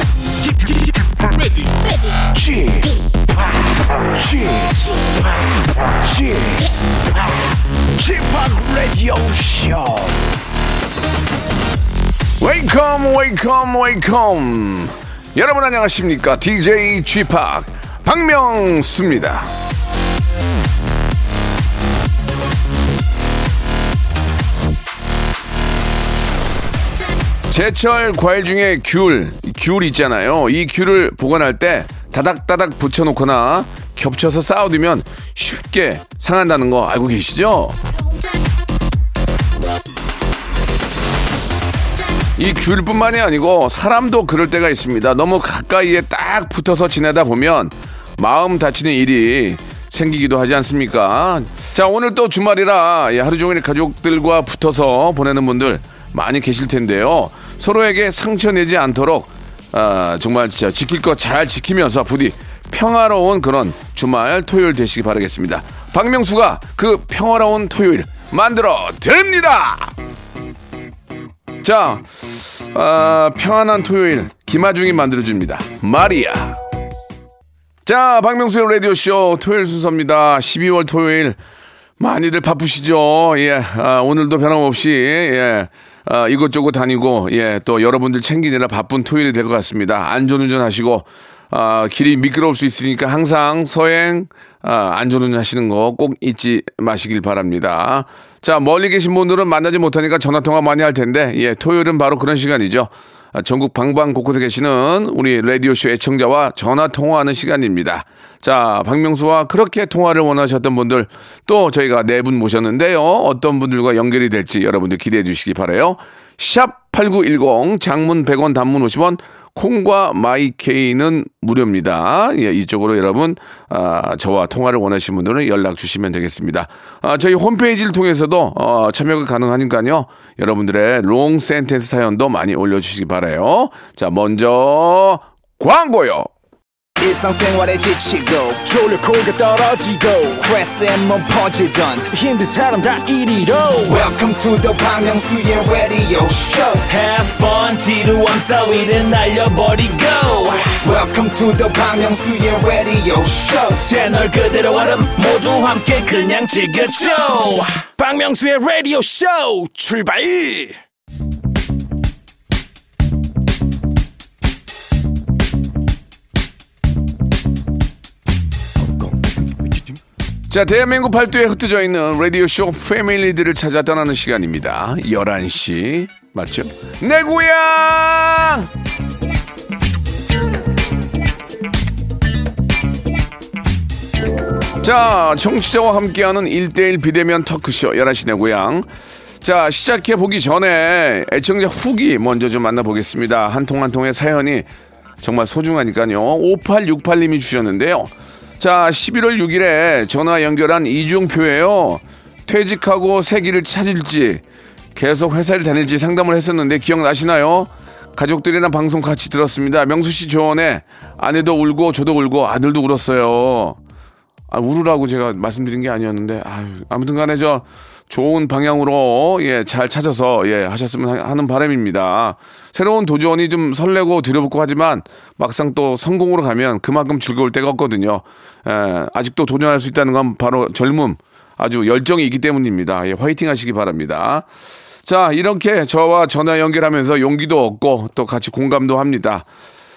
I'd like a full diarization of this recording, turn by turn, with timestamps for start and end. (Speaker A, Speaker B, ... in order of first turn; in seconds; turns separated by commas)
Speaker A: 2.3-2.9, Speaker B: 3.6-4.3, Speaker A: 4.2-4.9, Speaker A: 6.0-6.6, Speaker B: 8.0-10.2, Speaker A: 8.8-9.9, Speaker A: 12.4-19.5, Speaker A: 27.5-37.8, Speaker A: 42.4-70.0, Speaker A: 71.6-76.6, Speaker A: 77.9-81.4, Speaker A: 82.0-136.3, Speaker B: 137.0-146.9, Speaker C: 146.9-150.8, Speaker B: 150.8-153.9, Speaker C: 153.8-157.8, Speaker B: 157.8-160.8, Speaker A: 170.5-178.7, Speaker A: 184.8-188.9, Speaker A: 189.4-194.7, Speaker A: 195.2-204.4, Speaker A: 204.9-213.8, Speaker A: 214.5-234.5, Speaker A: 235.1-239.5